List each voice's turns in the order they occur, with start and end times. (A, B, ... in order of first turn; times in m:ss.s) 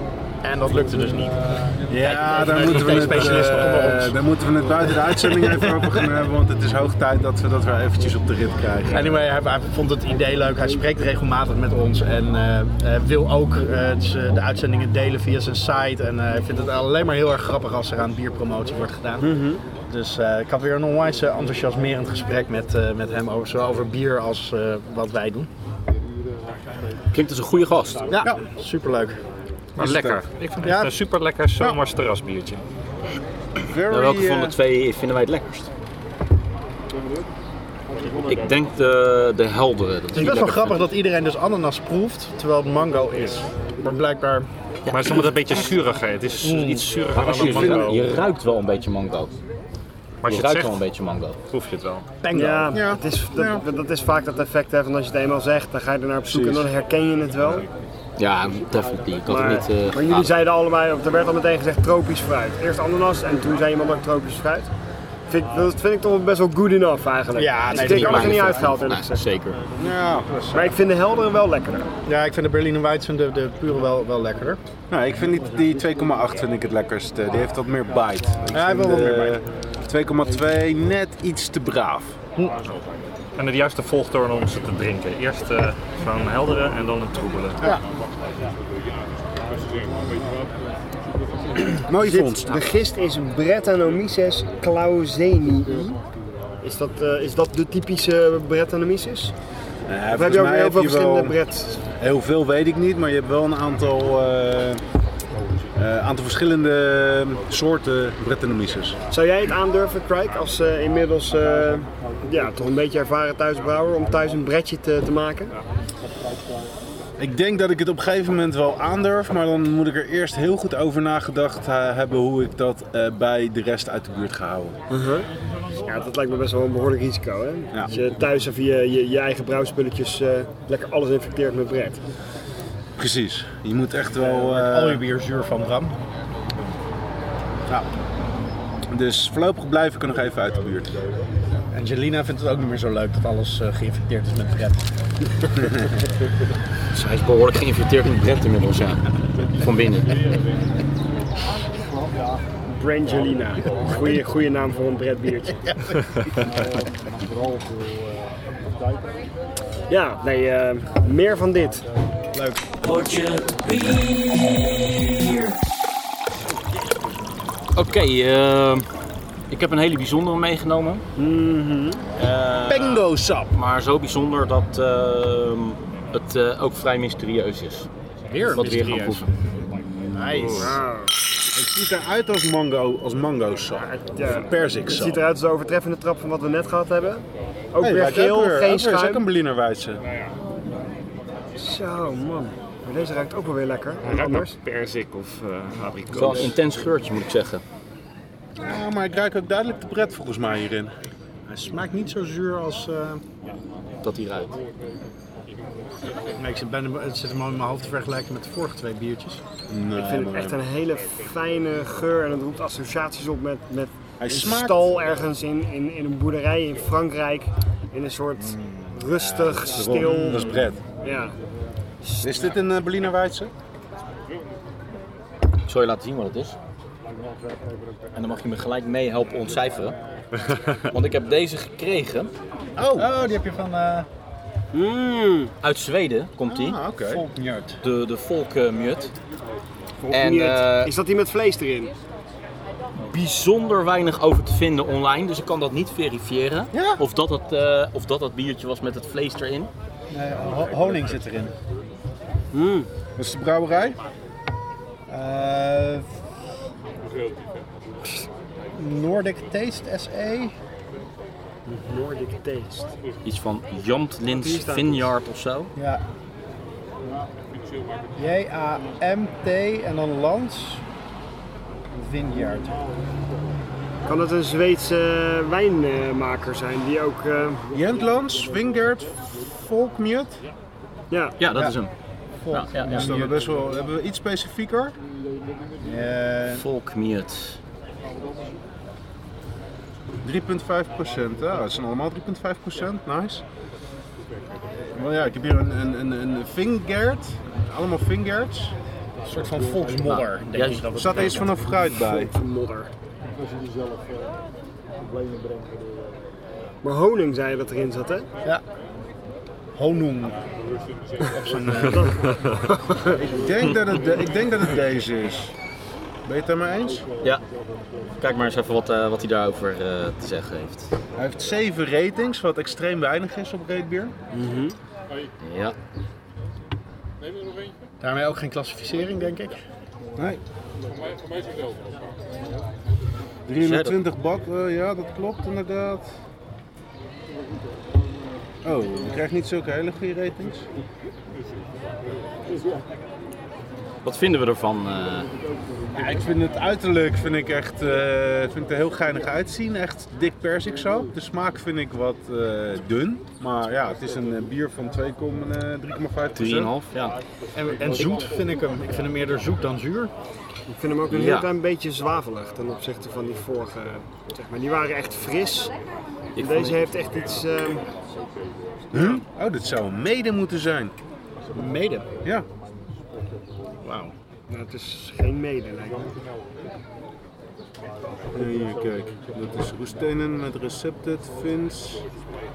0:00.4-0:04.2 A
0:01.9-0:09.1 B
0:03.0-0:03.4 C
0:08.9-0:25.5 A
0:19.2-0:19.6 D
0:27.1-0:28.0 E
0:28.1-0:29.2 A
0:29.8-0:32.6 C
0:29.8-0:30.2 B
0:30.6-0:30.9 A
0:33.6-0:34.5 B
0:33.9-0:35.7 E
0:38.2-0:40.8 E
0:40.1-0:44.5 A
0:40.2-0:40.5 D
0:44.9-0:48.0 C
0:46.4-0:46.8 A
0:47.1-0:49.3 E
0:47.2-0:47.9 B
0:50.2-0:50.8 C
0:50.3-0:51.4 E
0:51.5-0:52.1 C
0:52.2-0:52.8 A
0:52.3-0:57.6 D
0:52.7-0:53.6 B
0:56.3-0:56.7 B
0:58.2-1:00.3 E
0:59.3-1:04.7 D
1:05.3-1:09.2 D
1:07.3-1:08.5 A
1:07.7-1:09.6 E
1:09.8-1:10.8 B
1:10.5-1:11.9 D
1:12.0-1:14.6 A
1:14.9-1:22.2 B
1:18.5-1:19.4 A
1:23.4-1:27.6 C
1:31.9-1:32.6 B
1:32.0-1:36.0 D
1:36.6-1:39.3 D
1:39.9-1:41.3 B
1:40.1-1:41.8 D
1:42.0-1:44.8 B
1:45.8-1:49.0 B
1:49.1-1:55.5 D
1:57.2-2:04.8 B
2:04.9-2:05.3 D
2:05.8-2:12.0 D
2:13.0-2:15.0 B
2:14.2-2:16.0 A
2:18.9-2:21.0 B
2:21.7-2:24.8 A
2:26.9-2:30.2 E
2:32.7-2:35.6 D
2:35.6-2:36.0 A
2:39.9-2:41.8 D
2:42.3-2:42.7 A
2:42.8-2:45.5 E
2:47.7-2:48.9 E
2:49.5-2:51.0 E
2:51.2-2:52.0 D
2:52.2-2:57.9 E
2:52.7-2:53.5 B
2:58.3-2:59.2 A
2:58.5-2:59.3 E
2:58.6-2:59.2 C
3:00.1-3:00.8 A
3:00.4-3:00.7 C
3:00.5-3:01.1 D
3:01.5-3:05.2 B
3:03.7-3:09.2 D
3:07.8-3:10.0 B
3:11.6-3:14.5 D
3:14.0-3:16.6 C
3:16.1-3:17.6 E
3:18.6-3:20.9 B
3:21.5-3:23.2 A
3:24.0-3:24.6 E
3:26.4-3:29.4 A
3:29.7-3:30.6 B
3:29.9-3:41.3 D
3:34.2-3:35.0 B
3:38.4-3:39.7 A
3:39.6-3:40.8 B
3:42.0-3:42.5 D
3:42.2-3:43.5 B
3:45.7-3:46.6 E
3:48.1-3:49.9 E
3:50.9-3:52.3 E
3:52.8-3:53.1 B
3:52.9-3:54.1 A
3:54.7-3:55.5 D
3:55.6-3:56.8 E
3:56.5-3:57.2 B
3:57.0-3:57.8 A
3:57.8-3:59.1 E
4:00.0-4:01.9 D
4:00.1-4:00.9 E
4:03.1-4:09.7 E
4:06.7-4:07.0 A
4:10.1-4:11.5 A
4:12.5-4:12.9 D
4:13.2-4:14.0 B
4:15.1-4:16.1 A
4:18.7-4:20.5 A
4:21.7-4:22.9 D
4:23.2-4:25.7 E
4:24.3-4:25.1 D
4:25.8-4:26.0 A
4:28.2-4:30.8 A
4:31.9-4:32.8 A
4:34.0-4:37.6 D
4:37.7-4:40.4 B
4:41.1-4:41.4 D
4:41.4-4:41.9 E
4:41.5-4:41.8 A
4:42.4-4:43.4 A
4:42.5-4:43.1 E
4:42.9-4:45.0 B
4:45.8-4:46.6 A
4:46.5-4:47.6 E
4:50.2-4:53.4 B
4:54.9-4:58.7 B
4:59.2-5:01.4 A
5:00.0-5:01.4 E
5:00.9-5:02.3 B
5:01.9-5:02.9 D
5:06.8-5:08.3 D
5:09.7-5:10.4 A
5:11.3-5:12.1 A
5:11.8-5:13.1 D
5:12.2-5:12.6 C
5:13.1-5:15.5 B
5:16.2-5:17.0 B
5:18.2-5:20.9 E
5:21.2-5:24.1 B
5:24.3-5:24.8 D
5:25.4-5:25.7 E
5:28.0-5:29.6 A
5:33.5-5:36.1 B
5:33.6-5:34.0 E
5:38.6-5:40.6 B
5:44.0-5:45.3 E
5:45.9-5:56.7 B
5:56.3-5:57.2 E
5:57.5-6:00.1 A
6:00.7-6:05.7 D
6:01.1-6:01.5 E
6:06.3-6:06.9 E
6:06.4-6:07.8 D
6:08.9-6:10.9 B
6:11.5-6:12.1 A
6:13.8-6:14.1 A
6:14.5-6:16.1 D
6:18.3-6:22.0 B